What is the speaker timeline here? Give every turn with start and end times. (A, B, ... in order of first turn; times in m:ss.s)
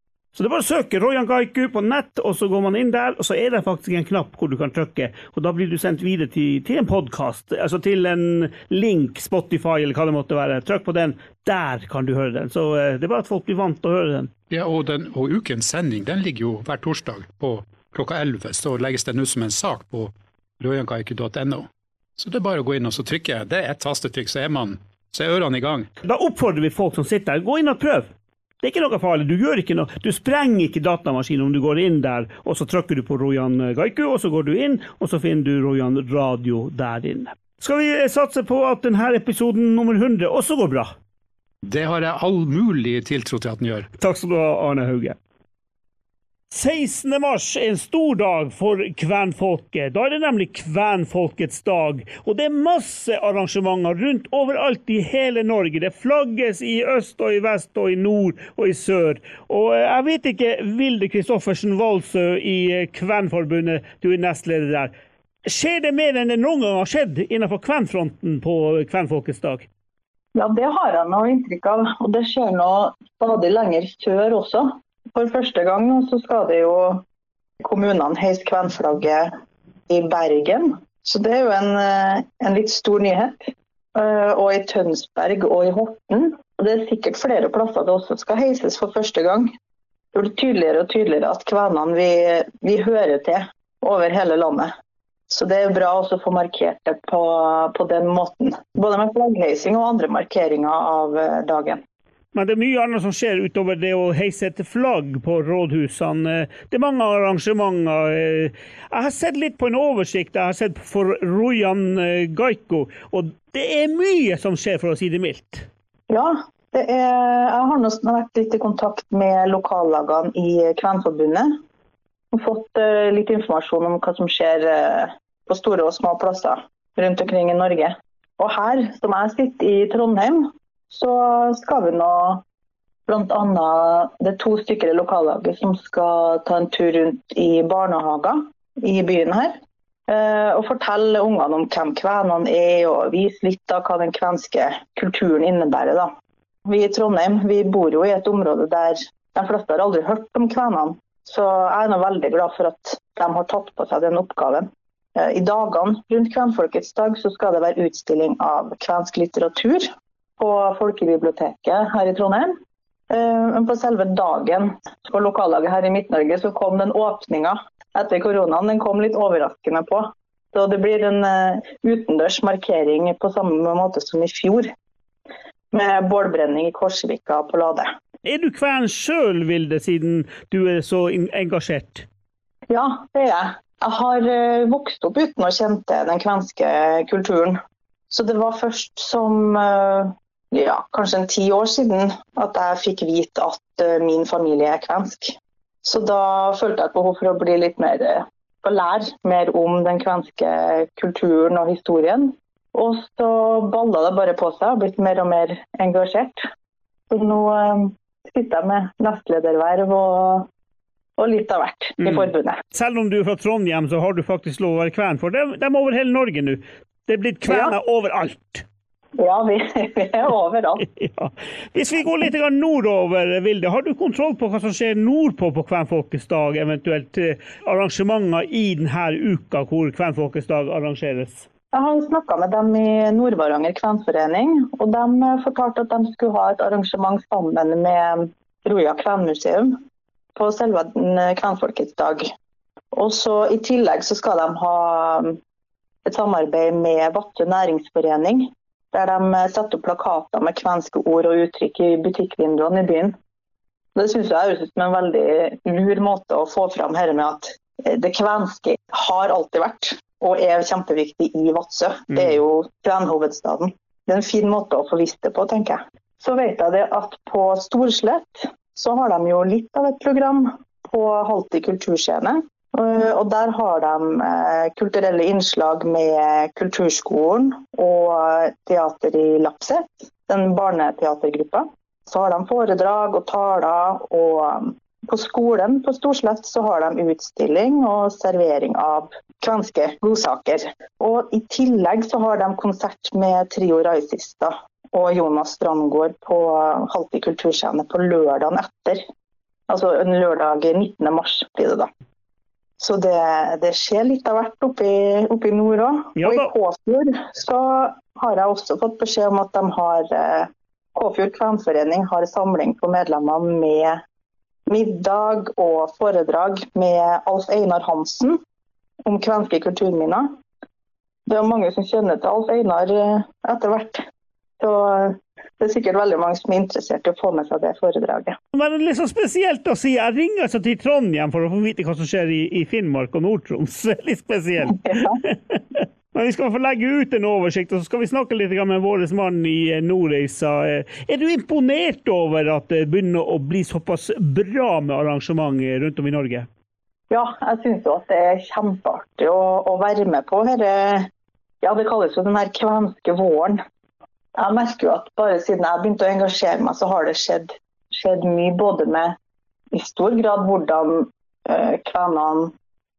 0:00.3-0:14.3 A
0:14.5-0:25.9 B
0:26.0-0:28.1 A
0:28.6-0:40.9 A
0:41.6-0:43.9 B
0:44.0-0:45.2 A
0:46.5-1:04.9 A
1:05.4-1:09.7 A
1:10.3-1:17.0 C
1:17.6-1:19.3 C
1:19.9-1:29.5 C
1:30.1-1:34.7 C
1:35.3-1:41.8 C
1:42.3-1:55.7 A
1:56.1-2:01.6 C
2:02.3-2:12.4 C
2:13.1-2:26.1 C
2:26.6-2:42.6 C
2:43.1-2:54.7 C
2:55.7-2:57.9 C
2:58.2-3:02.1 A
3:02.7-3:07.6 C
3:08.1-3:26.5 C
3:27.1-3:30.5 C
3:31.2-3:32.6 C
3:32.0-3:38.6 A
3:37.5-3:37.7 C
3:39.2-3:40.8 C
3:41.0-3:51.5 A
3:51.7-3:59.8 C
4:00.4-4:02.3 C
4:02.9-4:05.4 C
4:06.0-4:13.1 C
4:13.9-4:59.0 C
4:59.7-5:01.9 C
5:02.8-5:14.0 C
5:06.2-5:06.5 A
5:14.7-5:18.4 C
5:19.0-5:20.4 C
5:21.3-5:24.0 C
5:24.6-5:28.4 C
5:28.5-5:46.5 A
5:34.6-5:35.2 C
5:47.1-5:51.1 C
5:51.6-5:53.6 C
5:54.4-5:59.2 C
5:59.7-6:02.5 C